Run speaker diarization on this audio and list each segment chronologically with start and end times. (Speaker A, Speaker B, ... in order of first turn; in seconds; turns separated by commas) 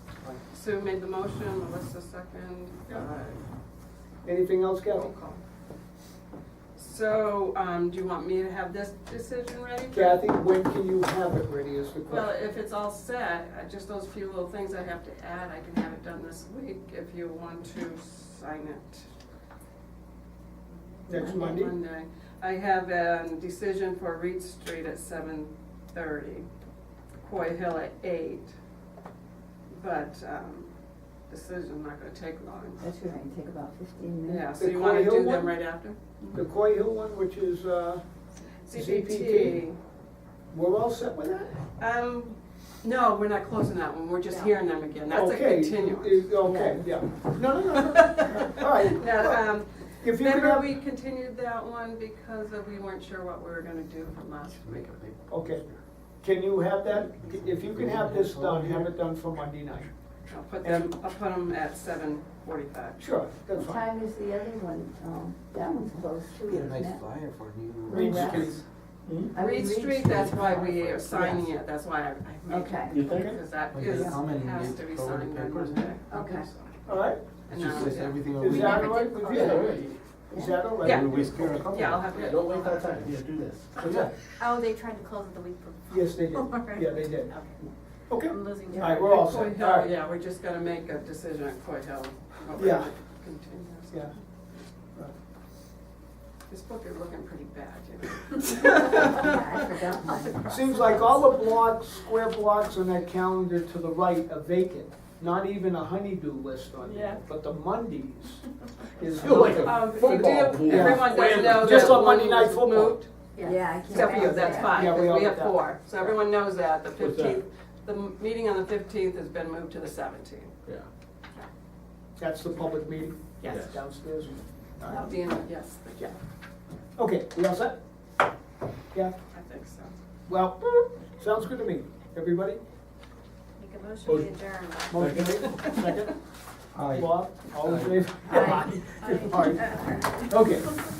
Speaker A: 0.5-3.4, Speaker B: 4.2-5.1, Speaker A: 4.9-5.4, Speaker A: 6.8-10.2, Speaker B: 9.9-12.3, Speaker A: 12.1-19.1, Speaker B: 21.1-21.7, Speaker A: 21.1-26.5, Speaker A: 27.2-28.5, Speaker A: 29.7-30.7, Speaker A: 31.3-32.9, Speaker C: 32.8-34.5, Speaker A: 34.2-36.4, Speaker B: 34.5-35.6, Speaker B: 36.3-38.0, Speaker A: 38.7-39.8, Speaker B: 38.7-39.6, Speaker B: 40.5-41.6, Speaker A: 41.8-46.3, Speaker D: 44.3-44.5, Speaker B: 45.1-49.4, Speaker C: 46.4-46.8, Speaker A: 47.7-54.9, Speaker B: 50.0-50.7, Speaker E: 54.6-55.8, Speaker B: 55.3-55.6, Speaker B: 56.2-59.9, Speaker E: 57.2-58.9, Speaker A: 60.3-63.0, Speaker B: 60.6-60.9, Speaker B: 63.0-63.9, Speaker C: 63.5-67.0, Speaker E: 66.5-68.6, Speaker C: 67.8-68.5, Speaker B: 67.9-69.3, Speaker C: 69.3-70.9, Speaker A: 69.3-76.8, Speaker E: 70.0-71.5, Speaker C: 72.5-73.0, Speaker F: 72.9-73.3, Speaker B: 73.1-73.3, Speaker E: 73.7-76.0, Speaker C: 73.8-74.2, Speaker C: 76.1-76.5, Speaker B: 76.8-77.2, Speaker E: 77.5-78.9, Speaker A: 77.5-78.4, Speaker B: 78.3-79.8, Speaker D: 78.4-80.0, Speaker F: 79.2-80.0, Speaker C: 80.3-80.8, Speaker B: 80.3-81.5, Speaker E: 80.8-82.1, Speaker A: 80.8-83.0, Speaker F: 82.1-84.1, Speaker E: 83.8-84.1, Speaker D: 84.4-87.6, Speaker B: 85.9-87.3, Speaker B: 88.1-89.9, Speaker D: 88.2-89.3, Speaker C: 88.7-89.1, Speaker A: 88.8-94.2, Speaker B: 92.5-92.9, Speaker A: 96.5-99.3, Speaker C: 99.1-100.8, Speaker B: 100.5-108.4, Speaker D: 106.8-107.2, Speaker B: 109.0-109.9, Speaker F: 109.2-112.1, Speaker A: 109.5-113.1, Speaker B: 110.6-113.0, Speaker D: 113.3-114.8, Speaker C: 113.4-114.9, Speaker A: 113.9-120.5, Speaker B: 114.6-116.1, Speaker F: 117.0-117.4, Speaker B: 122.2-125.2, Speaker F: 123.5-123.8, Speaker A: 124.9-126.1, Speaker B: 127.0-127.8, Speaker A: 129.3-129.9, Speaker B: 130.3-132.6, Speaker D: 133.6-134.9, Speaker F: 134.0-134.3, Speaker B: 134.9-136.1, Speaker F: 134.9-135.4, Speaker A: 135.4-136.0, Speaker E: 136.7-137.1, Speaker B: 136.9-140.8, Speaker E: 137.7-138.0, Speaker D: 138.3-140.2